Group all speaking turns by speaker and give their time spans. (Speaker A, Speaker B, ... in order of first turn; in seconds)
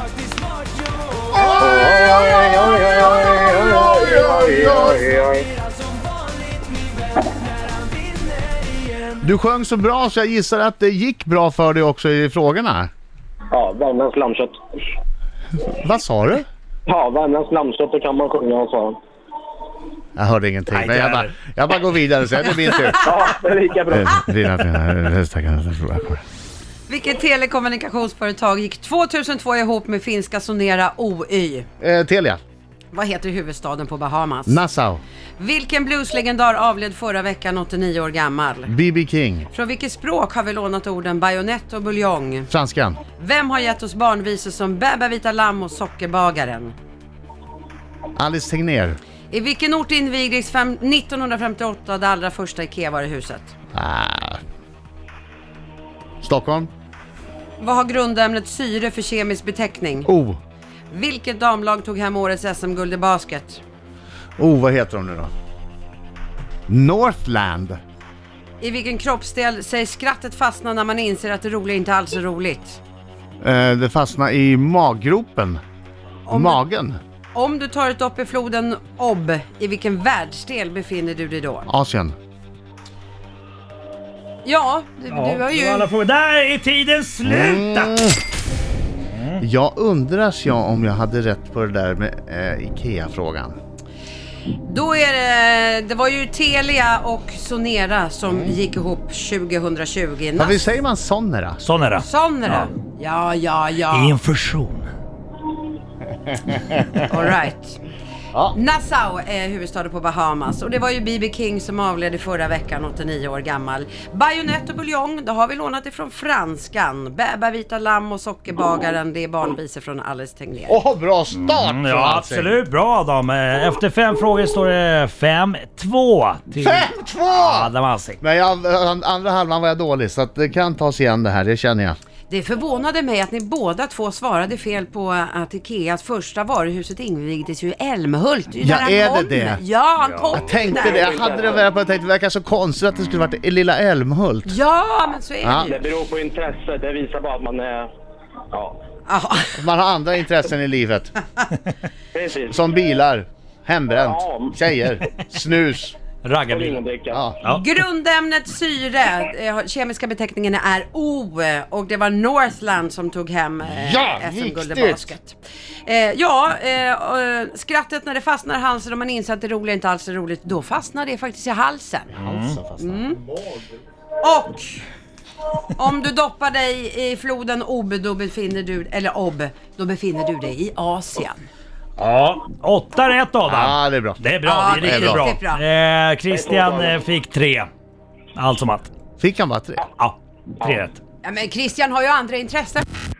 Speaker A: 1.3-5.0, 9.2-12.9, 15.7-16.5, 20.2-23.1, 23.9-26.2, 31.8-32.4, 34.5-35.0, 38.7-39.5, 42.5-43.0, 48.2-49.0, 53.7-54.4, 56.2-56.7, 60.1-60.4, 64.4-65.3, 66.7-67.8, 73.4-75.6, 76.3-77.0, 81.7-82.2, 87.3-88.2, 89.4-93.6, 100.4-101.6, 120.7-122.5, 126.6-127.7, 128.2-132.0, 138.6-139.6, 140.3-144.6, 145.4-145.7, 149.5-151.1, 152.5-156.0, 163.7-165.1, 172.1-173.6, 183.5-185.2, 189.2-189.8
Speaker B: 1.6-5.5, 13.5-14.6, 16.9-19.0, 23.0-24.2, 140.7-141.7, 145.7-147.9, 148.5-148.8, 152.1-152.6, 154.1-154.6, 156.5-157.2, 186.3-187.0
Speaker C: 20.7-21.3, 85.1-88.0, 89.1-89.4, 101.6-102.7, 103.9-104.9, 121.3-128.2, 140.0-140.4, 156.2-156.8, 172.2-172.6, 182.0-187.7, 188.4-188.9, 190.0-191.0
Speaker D: 26.9-31.7, 32.9-34.6, 35.4-38.7, 39.5-42.5, 43.2-46.8, 49.3-53.5, 57.6-60.1, 60.9-63.6, 68.6-72.8, 76.3-76.6, 77.3-81.7, 84.4-85.9, 94.6-100.6, 102.0-104.2, 107.1-107.8, 108.5-120.8, 132.3-141.1, 144.5-145.8, 149.1-149.6, 157.5-172.1, 172.8-173.2, 174.2-174.8, 175.8-181.4, 184.5-185.6, 191.2-192.8